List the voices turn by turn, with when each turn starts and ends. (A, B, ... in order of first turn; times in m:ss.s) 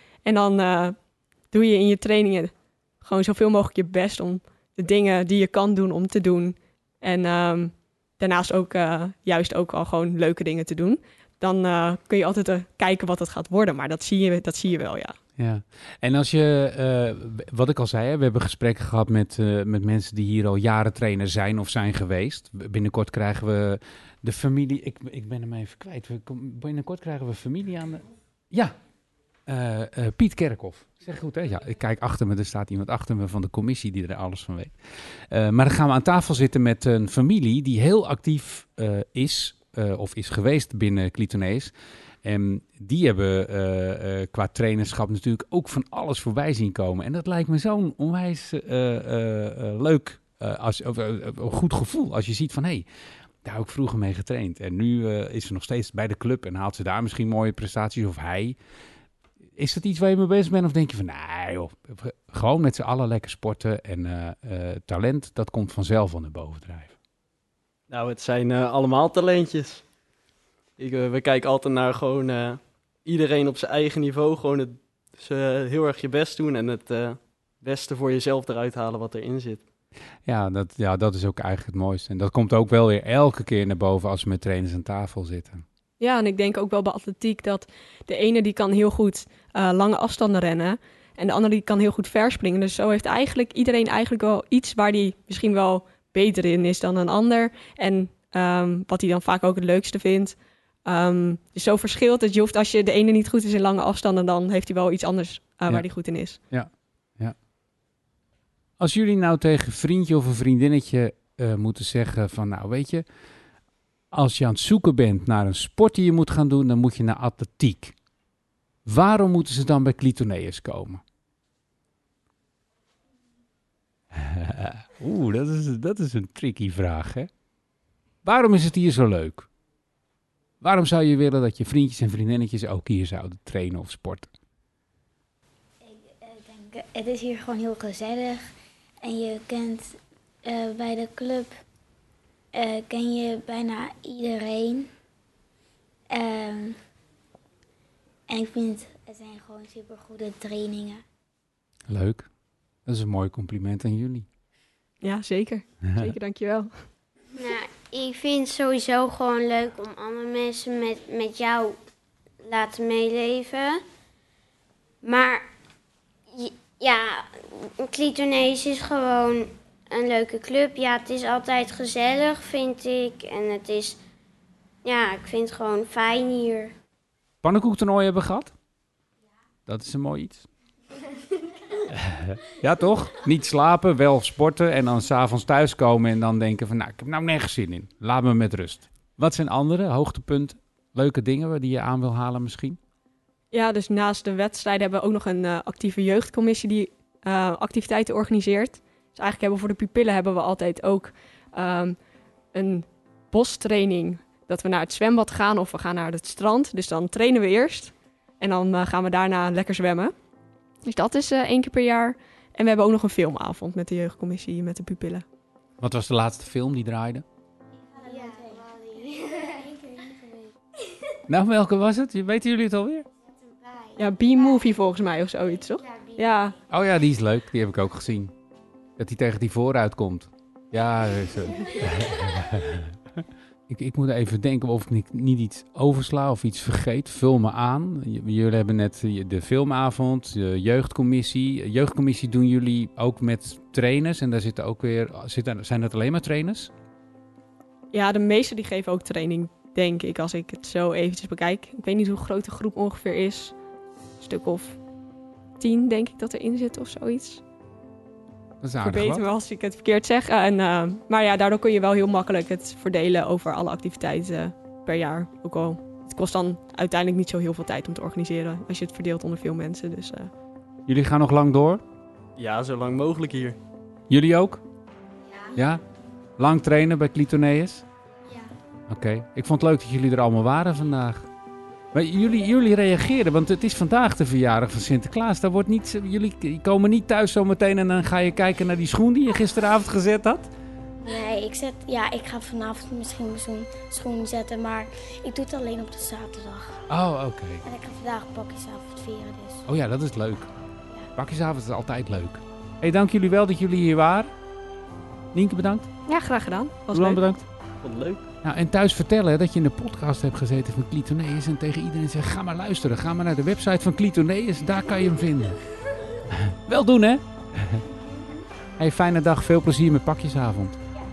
0:00.2-0:15.2 A
0:15.4-0:28.8 B
0:29.5-0:41.7 B
0:42.2-0:52.9 B
0:53.4-0:58.6 B
0:59.6-1:07.0 B
1:07.9-1:09.8 C
1:10.8-1:19.6 C
1:20.2-1:25.6 B
1:26.0-1:46.4 A
1:46.5-1:47.4 B
1:48.8-1:53.1 B
1:54.1-1:58.0 B
1:58.8-2:01.0 B
2:04.1-2:07.3 B
2:08.2-2:09.5 B
2:10.6-2:14.3 B
2:15.8-2:18.5 D
2:19.0-2:21.6 D
2:22.5-2:24.9 D
2:26.1-2:26.8 D
2:28.3-2:31.0 D
2:31.9-2:32.3 B
2:32.9-2:34.3 B
2:35.0-2:36.7 A
2:37.4-2:41.8 E
2:42.4-2:43.8 E
2:45.0-2:45.5 E
2:46.3-2:54.0 E
2:54.8-2:56.8 E
2:57.4-2:58.5 B
2:59.7-3:00.5 B
3:01.9-3:12.8 B
3:13.5-3:22.0 A
3:22.5-3:30.1 A
3:30.8-3:35.2 A
3:35.8-3:37.2 B
3:37.8-3:40.5 D
3:41.3-3:43.1 B
3:44.0-3:46.6 A
3:46.7-3:48.3 B
3:49.0-3:53.0 B
3:53.7-4:06.7 B
4:07.9-4:13.6 A
4:14.2-4:14.8 A
4:15.6-4:17.4 A
4:18.6-4:19.2 B
4:18.8-4:30.3 A
4:30.9-4:31.8 B
4:32.4-4:33.6 C
4:34.1-4:34.6 B
4:35.5-4:35.8 B
4:36.4-4:37.9 B
4:38.9-4:41.3 B
4:41.9-4:50.5 B
4:51.0-4:56.8 F
4:56.9-4:57.6 B
4:57.6-4:59.7 F
4:59.7-5:00.5 B
5:01.2-5:04.3 B
5:05.3-5:05.9 B
5:06.1-5:07.2 A
5:06.9-5:07.5 B
5:07.8-5:08.2 C
5:08.4-5:15.6 B
5:16.3-5:17.9 B
5:18.8-5:20.8 B